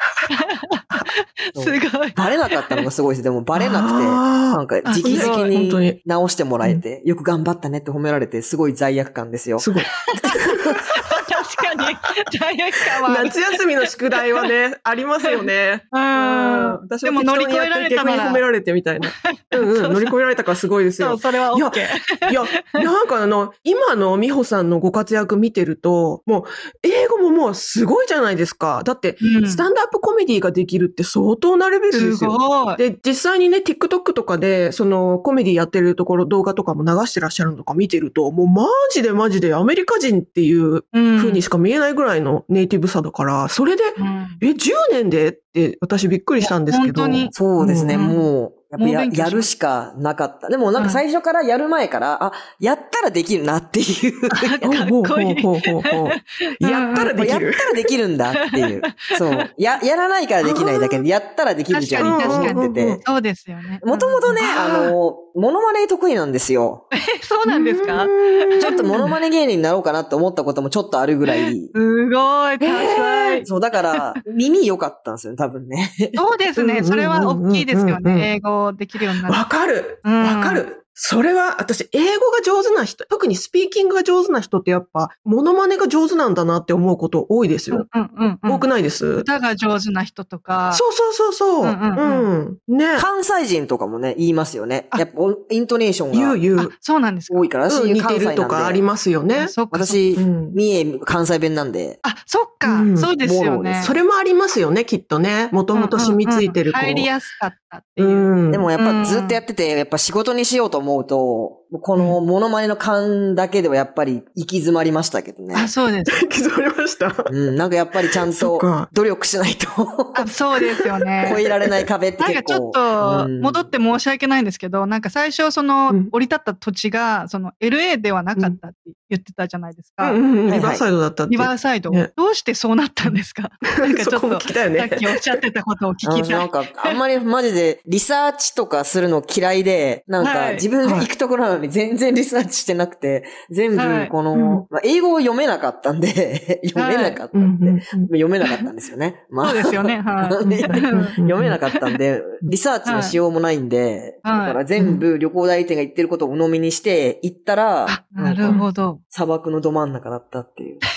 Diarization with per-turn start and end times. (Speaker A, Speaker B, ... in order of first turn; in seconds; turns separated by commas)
Speaker A: 0.3-2.8, Speaker B: 1.5-9.7, Speaker C: 3.5-6.0, Speaker A: 4.8-5.5, Speaker C: 9.6-9.9, Speaker A: 10.1-10.4, Speaker B: 10.2-10.9, Speaker A: 10.9-13.3, Speaker C: 13.0-48.0, Speaker A: 15.9-18.4, Speaker A: 19.1-20.1, Speaker A: 21.0-22.8, Speaker A: 29.2-29.6, Speaker A: 31.9-32.8, Speaker A: 40.9-41.4, Speaker A: 44.0-44.4, Speaker A: 46.4-47.4, Speaker B: 47.3-54.6, Speaker A: 47.9-48.2, Speaker A: 48.8-49.5, Speaker A: 50.8-51.0, Speaker A: 54.3-57.2, Speaker C: 54.6-57.7, Speaker B: 56.9-63.0, Speaker A: 58.5-59.5, Speaker C: 60.4-61.0, Speaker A: 61.7-64.4, Speaker C: 62.0-63.0, Speaker B: 63.8-66.8, Speaker C: 64.4-64.9, Speaker A: 66.9-68.8, Speaker C: 67.5-69.1, Speaker B: 68.6-71.7, Speaker A: 71.7-74.0, Speaker C: 72.6-73.4, Speaker B: 73.4-76.2, Speaker A: 76.1-79.4, Speaker C: 76.5-78.3, Speaker C: 79.2-87.9, Speaker A: 80.0-80.7, Speaker A: 87.7-90.8, Speaker C: 88.5-89.3, Speaker C: 90.7-93.1, Speaker A: 91.6-92.3, Speaker B: 93.0-96.4, Speaker C: 96.1-96.7, Speaker A: 96.5-97.5, Speaker B: 97.3-98.8, Speaker C: 97.7-99.5, Speaker A: 99.4-100.0, Speaker B: 99.7-102.0, Speaker C: 100.2-100.6, Speaker A: 102.0-103.9, Speaker C: 102.6-103.1, Speaker B: 103.2-103.9, Speaker C: 103.8-107.1, Speaker A: 105.7-109.4, Speaker C: 108.0-108.7, Speaker B: 108.5-115.7, Speaker A: 115.5-116.3, Speaker C: 116.1-117.3, Speaker B: 117.2-120.2, Speaker C: 118.2-118.9, Speaker A: 120.1-121.4, Speaker B: 121.2-123.7, Speaker A: 122.2-130.2, Speaker C: 130.0-132.1, Speaker B: 130.5-130.8, Speaker A: 131.3-136.5, Speaker C: 133.7-135.3, Speaker B: 136.0-160.8, Speaker A: 140.2-140.7, Speaker C: 140.8-141.1, Speaker A: 143.8-144.1, Speaker C: 144.3-144.6, Speaker A: 146.8-147.2, Speaker C: 147.3-148.1, Speaker A: 149.4-151.2, Speaker C: 150.4-151.6, Speaker A: 152.8-153.2, Speaker A: 154.2-154.6, Speaker C: 154.8-155.0, Speaker A: 157.9-159.0